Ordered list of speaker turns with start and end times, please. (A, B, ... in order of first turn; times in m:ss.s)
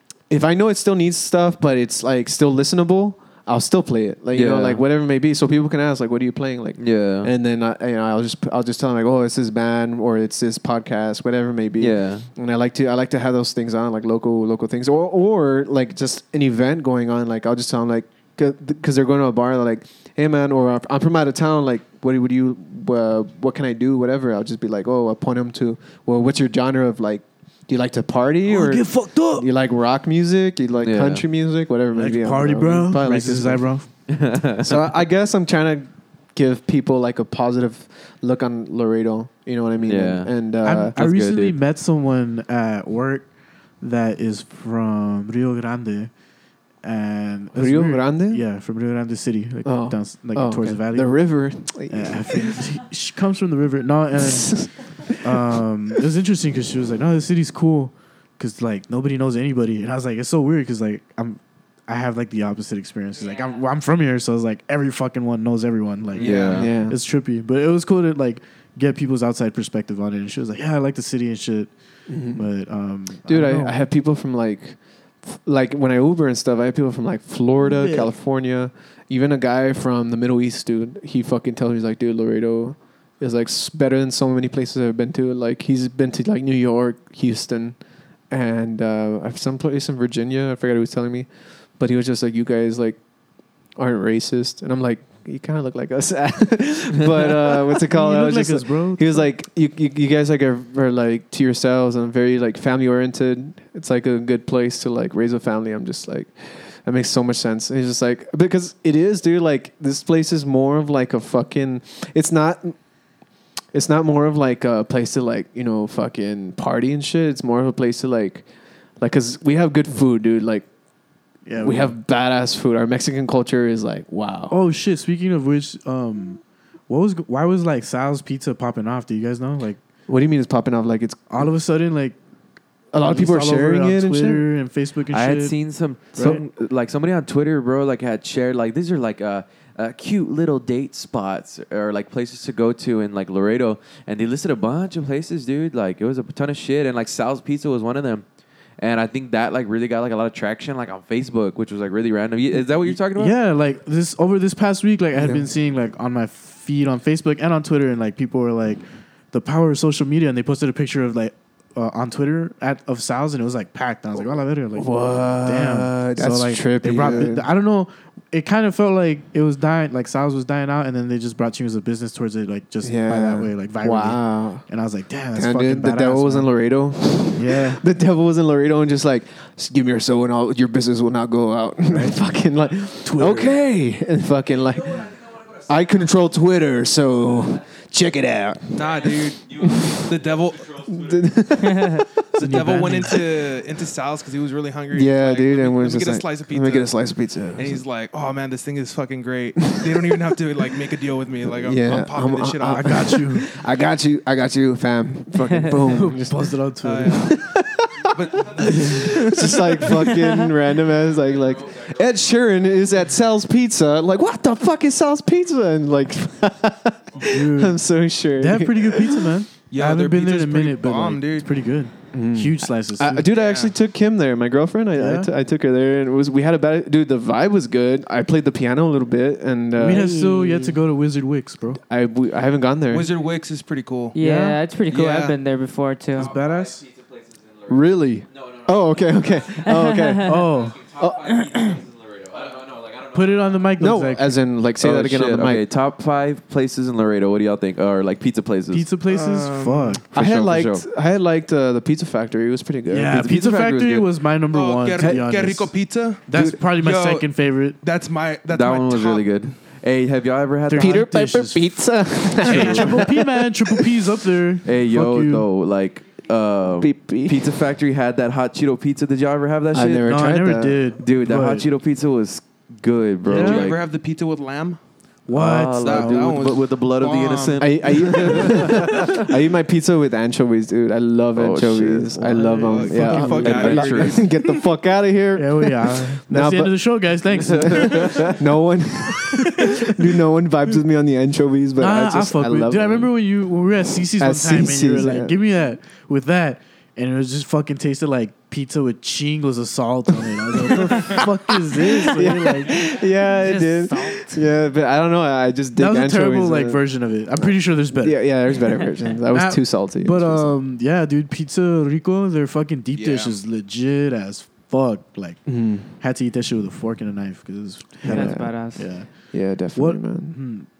0:00.3-0:33.8 A
0:04.3-0:04.8 B
0:06.8-0:07.3 B
0:11.8-0:12.3 B
0:28.4-0:29.5 C
0:30.8-0:31.2 B
0:31.9-0:33.9 C
0:34.1-0:34.7 B
0:34.6-0:40.9 A
0:39.8-0:40.3 B
0:40.6-0:43.3 C
0:40.9-0:41.6 B
0:43.8-0:46.1 C
0:46.8-0:51.2 C
0:47.5-0:48.4 A
0:49.6-0:52.6 A
0:51.9-0:54.7 C
0:54.2-0:54.7 A
0:55.2-1:11.7 C
1:06.2-1:06.7 B
1:06.2-1:07.0 A
1:12.1-1:12.5 A
1:12.3-1:13.8 C
1:13.2-1:27.8 A
1:17.6-1:18.1 C
1:28.3-1:33.0 A
1:33.8-1:52.7 A
1:37.8-1:39.3 C
1:53.7-1:58.4 A
1:59.0-2:00.6 A
2:01.4-2:01.9 C
2:01.6-2:04.6 A
2:04.5-2:09.8 C
2:10.1-2:11.5 A
2:11.3-2:12.2 C
2:12.9-2:14.5 A
2:13.0-2:15.5 C
2:15.1-2:28.2 B
2:16.1-2:16.4 C
2:16.2-2:16.4 A
2:28.8-2:33.4 B
2:32.9-2:56.5 C
2:35.1-2:35.5 A
2:44.2-2:47.5 A
2:52.8-2:54.6 A
2:55.3-3:09.0 A
2:57.3-2:57.8 C
3:01.9-3:02.2 C
3:03.0-3:03.6 C
3:08.7-3:10.7 D
3:09.6-3:10.0 A
3:10.9-3:12.1 A
3:11.7-3:12.0 E
3:12.4-3:16.9 D
3:12.4-3:13.2 C
3:14.9-3:17.8 A
3:17.6-3:23.1 D
3:19.6-3:20.1 A
3:21.6-3:26.5 A
3:22.7-3:23.5 C
3:25.7-3:27.4 C
3:26.8-3:27.4 D
3:27.2-3:39.3 A
3:28.1-3:29.3 D
3:37.2-3:37.8 C
3:38.4-3:43.3 C
3:39.7-3:41.6 D
3:42.1-3:50.1 A
3:43.3-3:43.7 D
3:45.0-3:45.3 C
3:49.8-3:50.8 E
3:49.8-3:51.8 C
3:51.8-3:53.1 A
3:52.9-3:54.2 D
3:54.1-3:56.3 E
3:54.2-3:54.6 C
3:54.9-3:55.4 D
3:56.2-3:56.8 C
3:56.7-3:57.7 B
3:57.7-4:01.5 A
3:58.4-3:59.4 B
3:59.6-4:00.3 E
4:00.2-4:00.9 C
4:00.9-4:03.2 B
4:03.1-4:04.4 C
4:03.8-4:05.6 A
4:04.8-4:08.9 B
4:08.7-4:10.0 C
4:09.0-4:10.0 D
4:10.1-4:10.8 B
4:10.1-4:13.6 A
4:12.9-4:15.8 C
4:13.1-4:14.0 B
4:14.5-4:19.3 D
4:16.3-4:17.8 C
4:18.5-4:21.1 B
4:20.7-4:21.8 C
4:20.7-4:23.8 A
4:22.4-4:25.4 C
4:22.4-4:23.0 B
4:24.6-4:30.1 B
4:26.8-4:27.5 A
4:29.7-4:30.9 A
4:30.0-4:31.7 C
4:31.0-4:33.8 B
4:33.3-4:34.8 D
4:33.3-4:33.7 C
4:35.3-4:36.3 C
4:35.3-4:39.3 B
4:35.8-4:38.6 D
4:37.6-4:46.8 A
4:41.4-4:44.2 B
4:42.4-4:43.8 C
4:42.4-4:44.5 D
4:45.4-4:48.4 C
4:47.4-4:48.3 B
4:47.6-4:53.1 A
4:51.8-5:02.8 C
4:54.2-4:55.4 A
5:00.7-5:01.2 A
5:01.8-5:10.6 A
5:03.2-5:04.4 E
5:05.8-5:08.2 C
5:09.3-5:20.7 C
5:12.9-5:13.4 D
5:15.4-5:15.9 A
5:18.0-5:20.4 A
5:18.0-5:18.8 E